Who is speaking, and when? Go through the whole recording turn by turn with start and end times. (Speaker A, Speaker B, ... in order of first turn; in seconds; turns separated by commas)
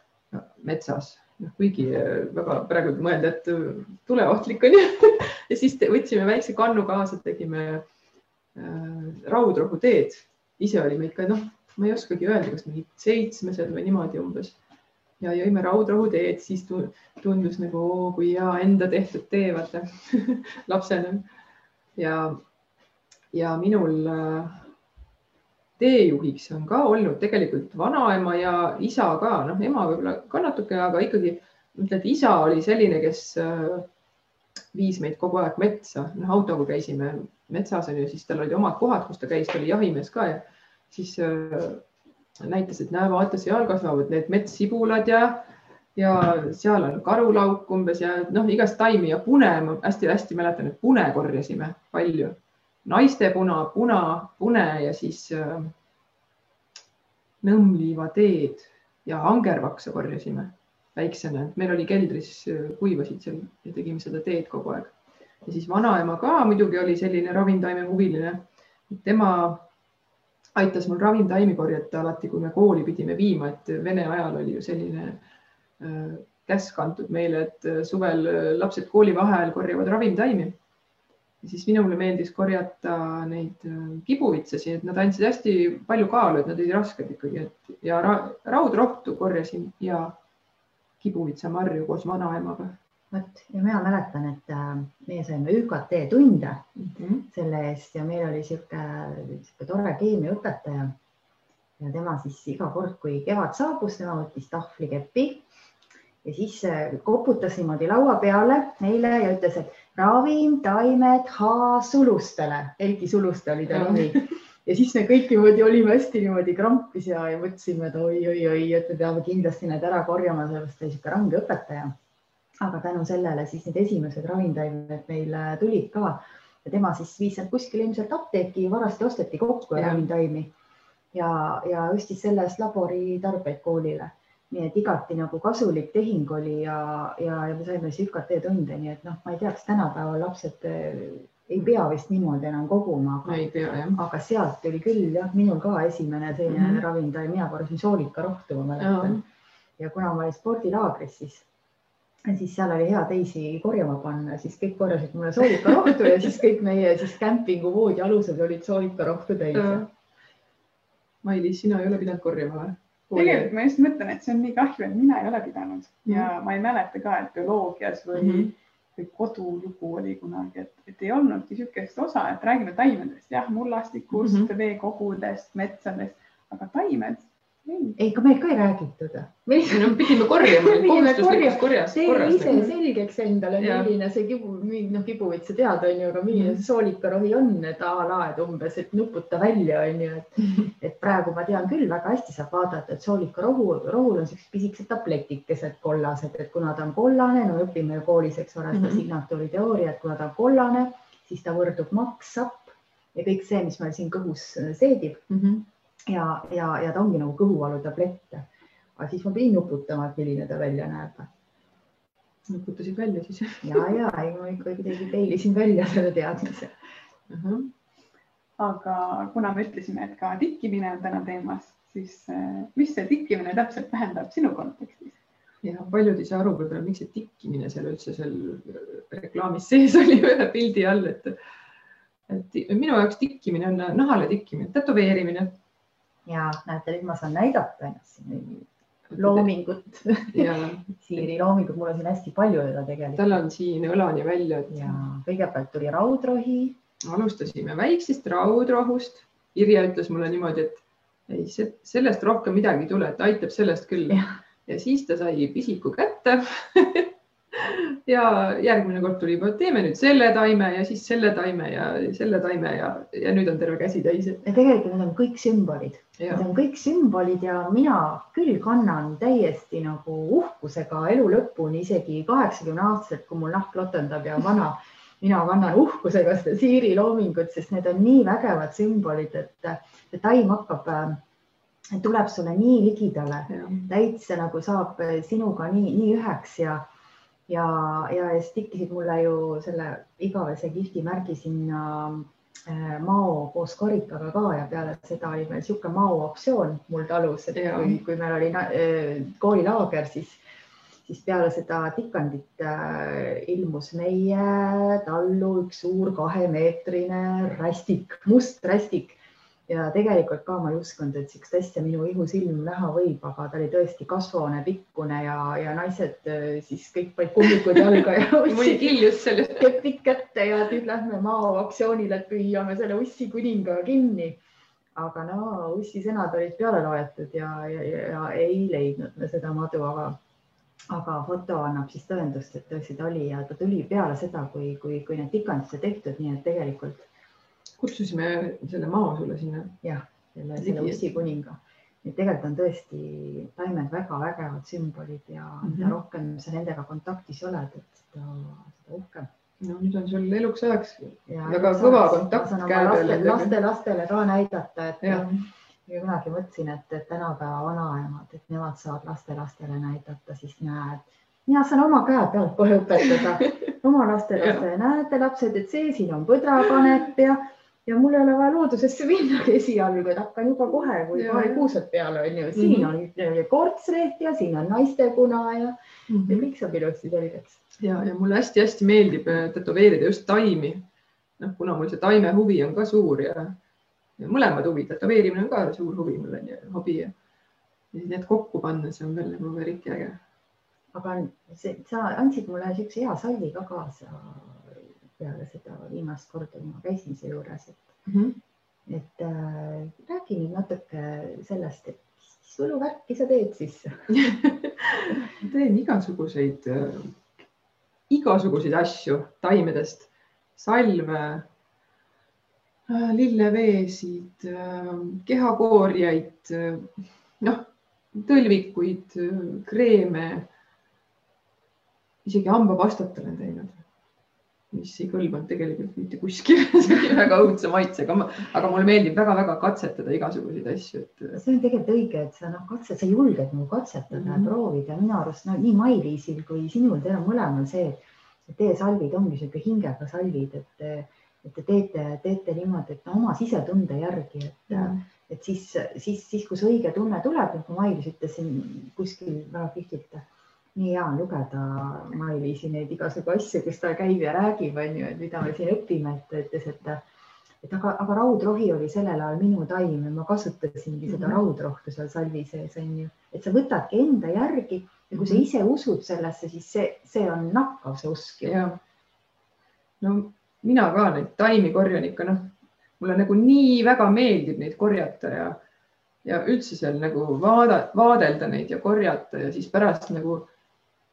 Speaker A: 0.3-7.8, Speaker A: 8.6-14.6, Speaker A: 15.2-21.3, Speaker A: 22.0-22.4, Speaker A: 23.3-24.7, Speaker A: 25.8-33.9, Speaker A: 34.7-41.8, Speaker A: 42.4-55.7, Speaker A: 57.4-69.7, Speaker A: 70.5-75.2, Speaker A: 75.8-80.6, Speaker A: 81.4-90.2, Speaker A: 91.0-92.8, Speaker B: 93.1-96.7, Speaker A: 96.8-97.3, Speaker B: 97.3-100.9, Speaker B: 101.8-105.5, Speaker B: 106.2-121.9, Speaker A: 113.7-114.2, Speaker B: 122.6-130.5, Speaker A: 129.8-130.1, Speaker B: 131.1-149.2, Speaker A: 143.3-144.0, Speaker A: 146.5-146.8, Speaker A: 148.8-149.2, Speaker B: 149.8-151.5, Speaker B: 152.2-159.9, Speaker A: 159.5-159.9, Speaker A: 161.2-163.5, Speaker C: 163.1-178.0, Speaker A: 168.1-168.5, Speaker A: 174.1-174.5, Speaker B: 178.0-205.2, Speaker A: 179.7-182.7, Speaker A: 183.6-183.9, Speaker A: 186.3-186.6, Speaker A: 198.7-199.0, Speaker A: 205.3-205.7, Speaker B: 206.1-211.3, Speaker A: 212.5-213.9, Speaker B: 213.6-216.8, Speaker A: 217.3-217.7, Speaker C: 218.6-225.2, Speaker A: 225.6-231.4, Speaker A: 232.3-235.6, Speaker B: 236.3-238.7, Speaker A: 239.1-239.5, Speaker B: 239.2-243.4, Speaker A: 240.3-241.3, Speaker A: 243.2-245.0, Speaker B: 244.7-246.8, Speaker A: 247.0-264.4, Speaker B: 264.4-281.2, Speaker A: 266.2-266.5, Speaker B: 281.9-286.9, Speaker A: 283.5-283.9, Speaker B: 287.5-300.4, Speaker A: 297.6-298.0, Speaker B: 301.1-319.0, Speaker A: 318.5-319.8, Speaker B: 319.6-324.4, Speaker B: 324.9-330.2, Speaker B: 330.9-337.1, Speaker A: 337.8-339.8, Speaker B: 339.8-349.3, Speaker A: 340.6-341.0, Speaker A: 345.6-346.0, Speaker A: 349.6-353.5, Speaker B: 351.3-355.3, Speaker A: 355.0-355.4, Speaker B: 355.9-377.6, Speaker A: 364.4-364.6, Speaker A: 371.1-371.7, Speaker A: 372.5-372.9, Speaker A: 376.1-376.5, Speaker A: 377.8-380.8, Speaker A: 381.4-383.6, Speaker A: 384.2-387.1, Speaker A: 387.9-390.2, Speaker B: 390.9-397.9, Speaker A: 398.1-398.4, Speaker B: 398.9-404.1, Speaker A: 404.1-407.1, Speaker A: 408.1-411.5, Speaker A: 412.9-420.5, Speaker A: 422.2-423.8, Speaker A: 424.7-431.4, Speaker B: 431.3-457.0, Speaker A: 434.1-434.5, Speaker A: 444.7-445.0, Speaker B: 457.6-468.6, Speaker A: 461.1-461.4, Speaker A: 465.1-465.5, Speaker A: 468.4-468.8, Speaker A: 470.0-475.6, Speaker A: 476.2-480.5